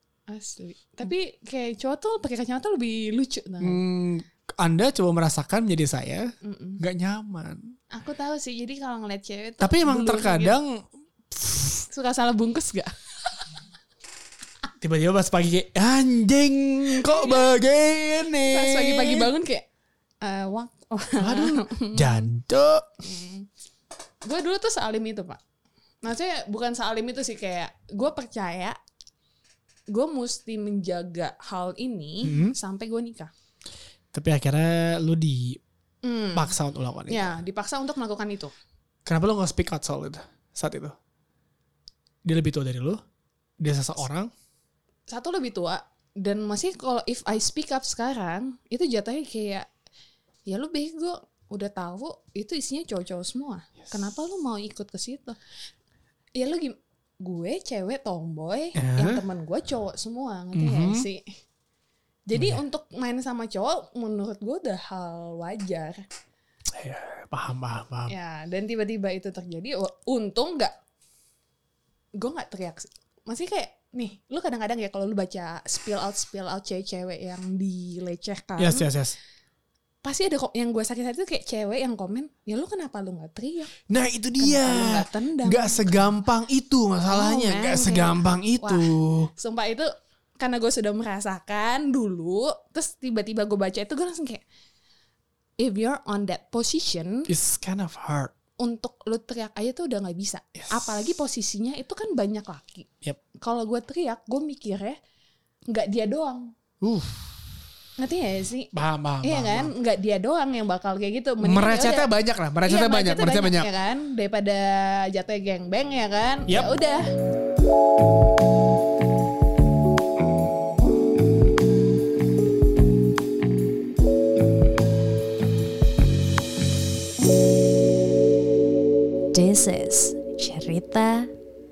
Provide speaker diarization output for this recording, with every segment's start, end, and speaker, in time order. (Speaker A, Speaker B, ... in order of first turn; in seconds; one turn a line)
Speaker A: 0.3-3.8
Speaker B: 3.6-7.6
Speaker A: 6.4-6.8
Speaker A: 7.9-10.6
Speaker B: 9.6-11.8
Speaker A: 11.9-12.9
Speaker B: 14.8-19.3
Speaker A: 18.4-19.7
Speaker A: 20.2-22.3
Speaker B: 21.2-22.9
Speaker A: 23.0-23.5
Speaker A: 24.2-25.4
Speaker A: 26.0-28.8
Speaker A: 29.9-33.3
Speaker B: 32.2-32.5
Speaker B: 34.1-35.6
Speaker A: 36.0-36.6
Speaker B: 36.3-37.3
Speaker A: 37.1-38.5
Speaker B: 39.1-41.0
Speaker B: 42.3-43.0
Speaker B: 43.6-44.3
Speaker A: 45.1-49.7
Speaker A: 50.5-55.4
Speaker A: 56.4-61.2
Speaker B: 58.8-59.2
Speaker B: 60.5-61.1
Speaker A: 62.3-66.0
Speaker B: 62.3-62.6
Speaker B: 66.8-68.1
Speaker A: 68.1-70.7
Speaker A: 72.2-78.9
Speaker B: 78.6-79.2
Speaker A: 80.0-83.8
Speaker B: 83.9-89.3
Speaker A: 84.4-86.1
Speaker A: 87.1-94.4
Speaker A: 95.6-97.3
Speaker B: 97.3-98.3
Speaker A: 98.6-102.9
Speaker B: 100.5-101.0
Speaker A: 103.4-105.0
Speaker A: 105.7-106.5
Speaker B: 106.8-107.3
Speaker A: 108.0-112.1
Speaker B: 108.7-109.7
Speaker B: 111.4-113.7
Speaker A: 112.7-117.1
Speaker C: 129.3-131.3